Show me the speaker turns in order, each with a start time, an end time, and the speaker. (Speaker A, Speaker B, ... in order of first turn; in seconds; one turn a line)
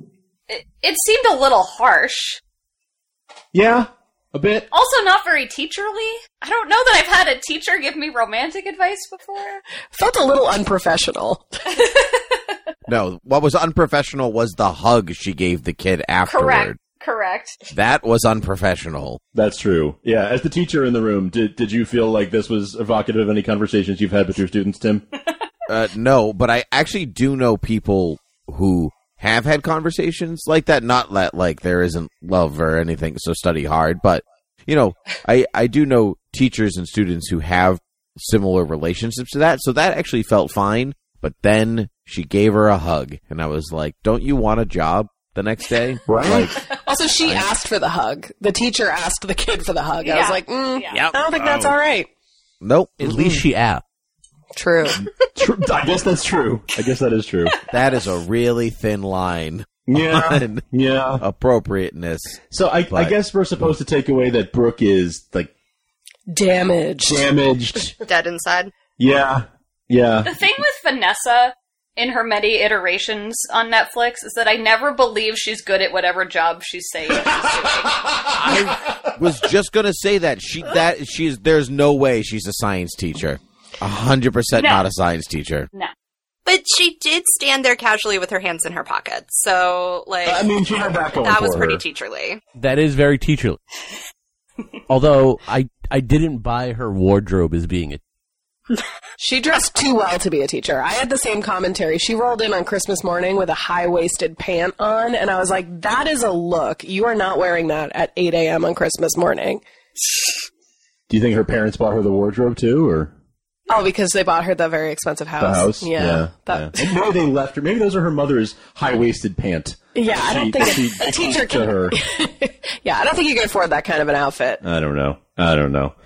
Speaker A: 0.5-2.4
Speaker B: 3.5-4.7
Speaker A: 4.7-9.6
Speaker C: 9.9-11.6
Speaker A: 11.7-12.4
Speaker D: 12.9-16.8
Speaker A: 16.3-17.6
Speaker D: 17.7-19.2
Speaker B: 19.3-25.0
Speaker D: 25.7-46.5
Speaker B: 46.0-46.6
Speaker C: 46.7-52.1
Speaker A: 50.0-51.1
Speaker D: 52.6-53.4
Speaker E: 53.0-53.8
Speaker C: 54.5-55.0
Speaker B: 55.0-57.5
Speaker D: 57.7-60.6
Speaker B: 59.9-61.2
Speaker D: 61.2-62.4
Speaker B: 62.5-65.5
Speaker C: 66.3-67.2
Speaker B: 67.0-67.9
Speaker F: 68.0-68.7
Speaker B: 69.0-70.4
Speaker A: 70.2-78.0
Speaker B: 77.3-79.1
Speaker D: 78.4-85.7
Speaker A: 84.5-84.8
Speaker F: 86.5-90.5
Speaker B: 90.2-91.8
Speaker F: 91.2-92.4
Speaker E: 92.5-93.6
Speaker E: 94.9-98.0
Speaker C: 99.2-109.6
Speaker B: 111.1-113.1
Speaker C: 113.7-116.9
Speaker B: 115.4-122.0
Speaker C: 119.9-124.6
Speaker B: 124.6-126.0